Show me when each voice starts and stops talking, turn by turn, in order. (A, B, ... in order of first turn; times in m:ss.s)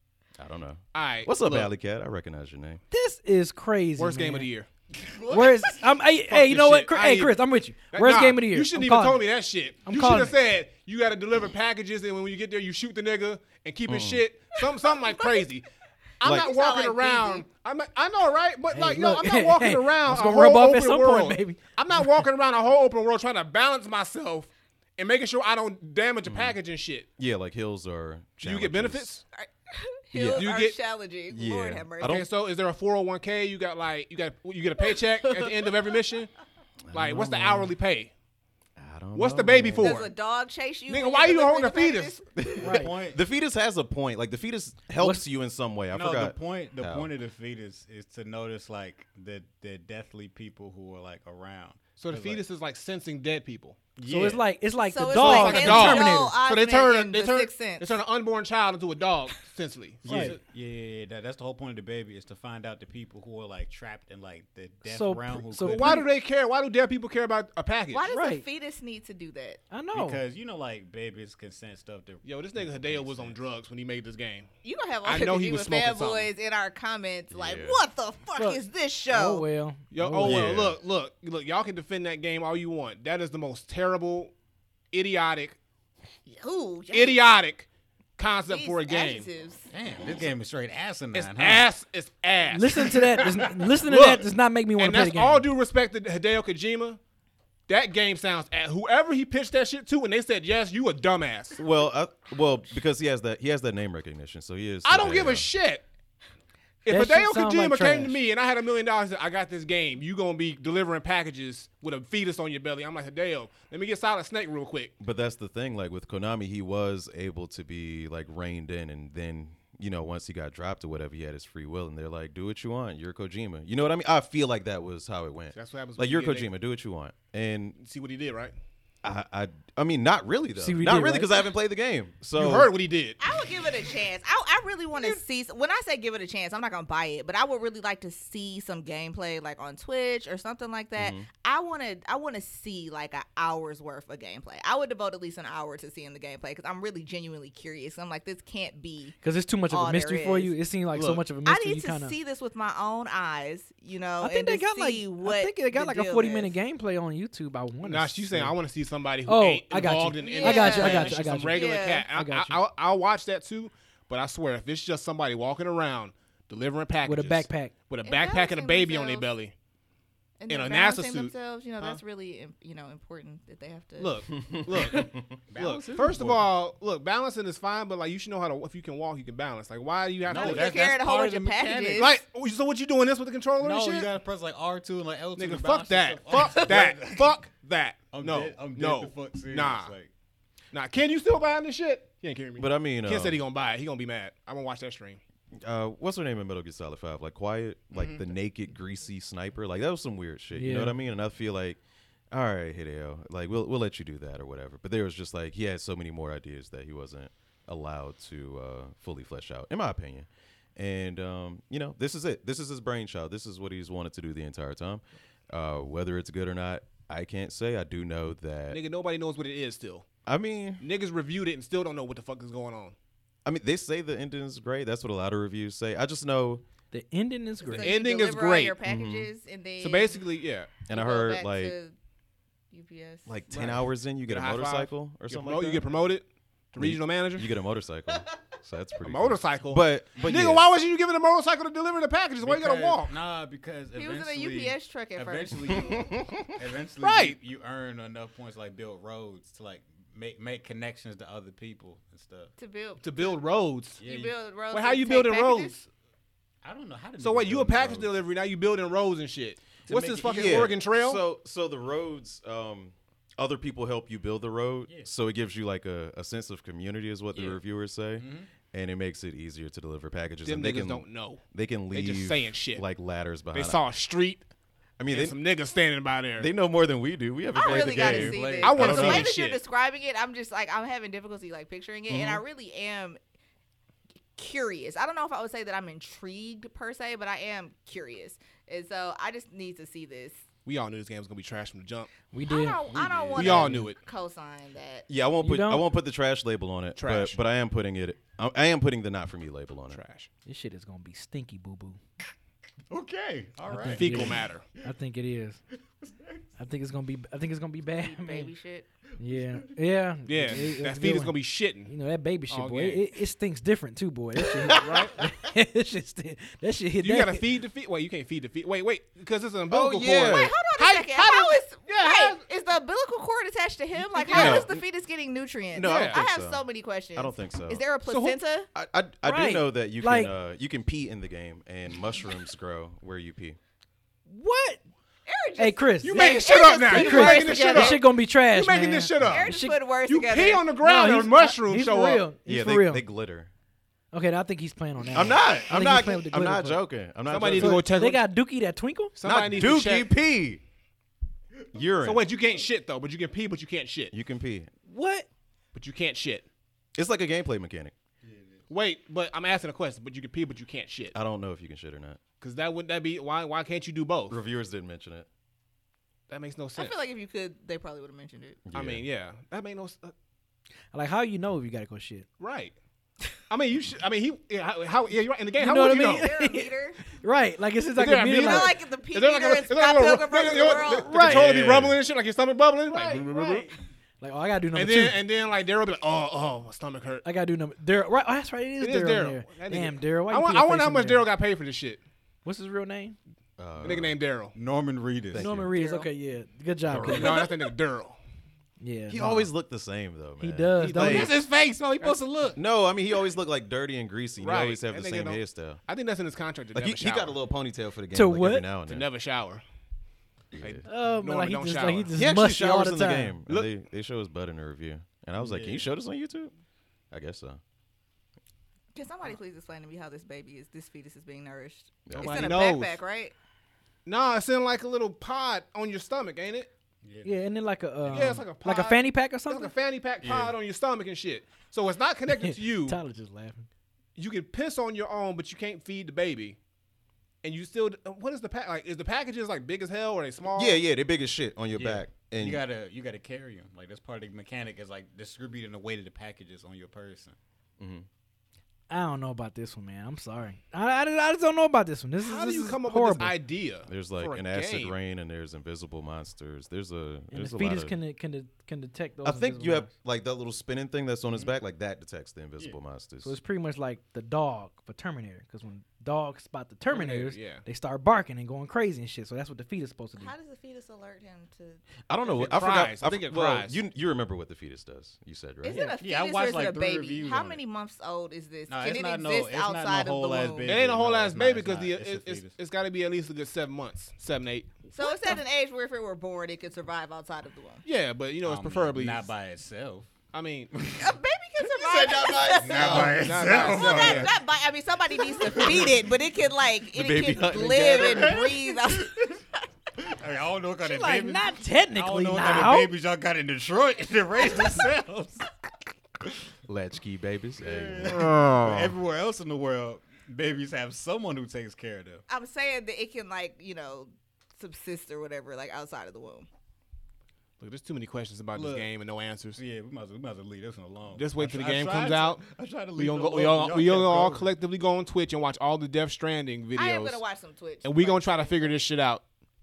0:00.4-0:02.8 A
0:00.9-0:01.7 B
0:02.9-0:04.5 C
0:04.0-0:04.7 B
0:05.0-0:05.8 D
0:05.3-0:09.2 C
0:06.3-0:07.4 B
0:07.9-0:15.7 B
0:09.8-0:10.3 C
0:13.9-0:14.2 A
0:14.8-0:15.4 E
0:16.2-0:27.1 B
0:16.2-0:16.5 A
0:16.2-0:17.4 E
0:18.7-0:22.2 C
0:26.2-0:26.6 A
0:27.2-0:29.2 A
0:28.4-0:29.2 B
0:29.4-0:32.2 E
0:30.1-0:30.5 A
0:30.3-0:30.8 B
0:31.3-0:32.3 A
0:32.0-0:36.3 B
0:34.9-0:35.9 E
0:36.8-0:37.7 A
0:36.9-0:38.1 B
0:38.8-0:40.1 A
0:39.1-0:40.1 B
0:39.8-0:42.4 E
0:40.9-0:42.2 B
0:42.4-0:47.1 A
0:42.6-0:42.9 C
0:42.6-0:43.2 D
0:45.9-0:52.4 D
0:52.0-0:53.8 B
0:54.0-0:54.4 D
0:54.0-0:56.4 C
0:54.8-0:58.0 E
0:55.1-1:00.3 B
1:00.0-1:06.0 D
1:00.0-1:00.4 C
1:04.8-1:06.0 C
1:05.6-1:08.0 B
1:07.9-1:09.6 E
1:08.1-1:08.4 C
1:09.7-1:10.2 C
1:09.9-1:13.4 D
1:12.2-1:14.5 B
1:14.6-1:19.4 E
1:15.0-1:16.3 B
1:17.3-1:17.8 A
1:18.4-1:20.5 C
1:19.9-1:24.3 B
1:20.2-1:20.8 A
1:24.9-1:25.6 B
1:26.3-1:27.2 E
1:26.9-1:27.7 B
1:28.2-1:29.3 B
1:28.5-1:29.7 E
1:29.7-1:31.7 D
1:31.1-1:37.0 B
1:32.5-1:35.4 C
1:37.7-1:41.6 B
1:41.6-1:45.5 A
1:44.8-1:45.8 B
1:46.8-1:54.9 B
1:46.8-1:48.2 C
1:55.0-2:07.8 A
2:05.5-2:06.5 B
2:07.8-2:08.5 B
2:09.0-2:12.7 A
2:10.6-2:11.4 C
2:12.4-2:13.2 B
2:13.2-2:29.2 E
2:21.0-2:21.3 A
2:29.2-2:32.2 C
2:29.7-2:30.5 E
2:31.4-2:36.5 E
2:34.2-2:38.5 C
2:37.8-2:49.5 B
2:39.3-2:42.6 C
2:40.2-2:42.1 E
2:47.0-2:47.7 C
2:48.0-2:49.3 E
2:50.4-2:54.3 E
2:50.5-2:52.0 B
2:54.0-3:00.9 B
2:54.3-2:55.3 A
2:55.5-2:56.4 D
3:00.3-3:02.0 D
3:00.3-3:02.2 E
3:02.0-3:04.1 B
3:03.6-3:07.4 D
3:05.4-3:09.9 B
3:08.1-3:10.1 D
3:10.7-3:15.2 B
3:12.6-3:13.4 A
3:15.6-3:21.8 A
3:17.9-3:18.3 D
3:20.5-3:21.0 C
3:22.3-3:38.8 A
3:38.7-3:40.0 B
3:40.2-3:40.8 A
3:40.8-3:42.9 B
3:43.4-3:46.6 A
3:46.9-3:47.9 C
3:47.6-3:50.2 E
3:47.8-3:48.8 B
3:48.8-3:49.3 A
3:49.8-3:50.8 B
3:50.9-3:51.7 A
3:50.9-3:51.9 E
3:52.7-3:53.3 E
3:53.2-3:55.8 A
3:53.5-3:57.5 B
3:56.8-4:00.6 A
3:59.0-4:03.1 B
4:02.4-4:12.5 D
4:03.9-4:05.8 E
4:05.7-4:06.5 A
4:07.0-4:07.4 B
4:12.6-4:13.4 E
4:13.0-4:14.0 B
4:14.0-4:14.3 D
4:14.0-4:15.8 E
4:14.7-4:15.9 B
4:16.6-4:18.1 D
4:17.2-4:21.2 B
4:19.9-4:20.6 D
4:20.2-4:33.8 A
4:28.2-4:28.5 D
4:30.4-4:32.8 B
4:33.5-4:34.4 B
4:35.0-4:35.4 A
4:35.1-4:36.5 B
4:36.4-4:39.3 A
4:37.5-4:43.2 E
4:37.6-4:39.0 D
4:38.6-4:39.6 B
4:42.1-4:42.4 A
4:44.4-4:50.4 E
4:50.6-4:52.1 B
4:52.3-4:52.8 C
4:52.4-4:55.1 E
4:52.9-4:53.5 D
4:53.3-4:54.0 B
4:53.4-4:53.9 C
4:55.1-5:00.0 A
4:55.4-4:55.8 C
4:57.0-4:57.4 B
4:59.9-5:00.3 B
5:00.4-5:02.0 C
5:02.9-5:04.5 D
5:03.7-5:05.6 C
5:03.9-5:04.6 B
5:06.1-5:06.4 D
5:06.6-5:08.5 C
5:08.0-5:08.9 E
5:09.2-5:11.3 C
5:10.3-5:11.9 B
5:11.8-5:17.4 C
5:12.5-5:13.0 B
5:14.8-5:15.2 B
5:17.0-5:22.4 B
5:19.7-5:20.5 A
5:20.3-5:28.7 E
5:24.0-5:24.7 B
5:24.3-5:24.8 A
5:25.7-5:26.6 A
5:25.8-5:26.2 B
5:27.1-5:27.8 A
5:28.1-5:28.4 B
5:28.7-5:33.6 A
5:29.2-5:30.3 C
5:34.3-5:34.8 C
5:35.2-5:38.0 E
5:35.6-5:39.8 C
5:36.0-5:39.5 B
5:39.2-5:40.6 E
5:40.1-5:42.3 B
5:40.8-5:43.0 C
5:42.4-5:43.5 A
5:44.1-5:46.8 C
5:45.1-5:47.8 A
5:47.3-5:48.2 B
5:47.6-5:49.1 C
5:49.1-5:50.1 B
5:49.2-5:50.6 A
5:51.7-5:52.2 A
5:52.0-5:54.1 B
5:54.1-5:54.7 A
5:54.9-5:55.3 C
5:55.7-5:56.5 B
5:57.0-5:57.9 A
5:58.2-5:58.6 D
5:58.7-6:01.1 B
6:01.1-6:02.2 A
6:02.4-6:04.4 B
6:04.3-6:05.3 A
6:06.3-6:07.0 B
6:06.8-6:08.6 E
6:08.6-6:09.0 A
6:08.7-6:10.1 B
6:10.9-6:12.2 C
6:12.4-6:12.7 B
6:13.5-6:16.3 B
6:15.6-6:18.7 C
6:16.0-6:17.0 E
6:18.0-6:23.7 B
6:18.4-6:21.1 E
6:21.0-6:21.5 C
6:21.2-6:21.9 A
6:22.9-6:23.7 C
6:24.2-6:25.2 C
6:24.7-6:27.2 B
6:27.2-6:31.2 C
6:28.8-6:32.0 B
6:32.4-6:33.2 C
6:33.6-6:34.2 A
6:33.8-6:34.5 B
6:34.5-6:35.6 D
6:35.3-6:35.7 A
6:35.3-6:37.4 C
6:35.7-6:36.1 E
6:36.9-6:37.3 A
6:37.0-6:38.2 B
6:38.8-6:39.5 C
6:39.1-6:41.3 A
6:40.4-6:41.4 C
6:40.8-6:42.2 B
6:41.0-6:42.6 D
6:42.6-6:45.8 A
6:44.4-6:47.4 B
6:46.7-6:49.1 A
6:48.1-6:48.7 C
6:48.9-6:49.6 B
6:50.5-6:50.8 A
6:50.6-6:52.1 B
6:50.8-6:53.4 C
6:52.1-6:56.5 A
6:55.4-6:55.8 D
6:57.1-6:57.6 A
6:58.9-7:03.3 E
7:02.1-7:02.6 A
7:02.2-7:03.0 B
7:04.0-7:06.7 B
7:07.0-7:07.4 D
7:07.2-7:09.7 C
7:08.1-7:13.0 B
7:10.2-7:10.6 D
7:12.3-7:13.7 C
7:14.2-7:16.6 B
7:17.4-7:20.8 B
7:20.5-7:22.6 A
7:21.8-7:27.4 D
7:27.8-7:28.1 A
7:28.9-7:33.3 C
7:32.2-7:34.9 B
7:33.9-7:38.0 A
7:37.3-7:39.9 C
7:39.2-7:43.4 A
7:43.2-7:50.3 C
7:46.9-7:47.6 B
7:50.2-7:52.8 E
7:52.1-7:55.9 A
7:52.4-7:53.8 B
7:55.6-8:00.8 E
7:56.0-7:57.6 D
7:58.7-8:02.5 D
8:00.6-8:05.3 B
8:04.9-8:07.8 E
8:07.8-8:09.3 B
8:08.4-8:10.1 D
8:10.3-8:10.7 B
8:10.7-8:14.4 D
8:11.0-8:19.2 E
8:12.6-8:14.3 B
8:15.2-8:16.0 D
8:16.9-8:18.5 A
8:17.9-8:19.4 D
8:20.0-8:25.4 D
8:20.8-8:22.9 C
8:26.7-8:28.3 A
8:27.6-8:32.2 D
8:28.0-8:29.0 B
8:32.3-8:36.5 E
8:37.6-8:39.6 B
8:38.5-8:38.9 D
8:39.5-8:44.5 D
8:41.2-8:47.2 B
8:46.8-8:48.8 E
8:47.8-8:49.2 B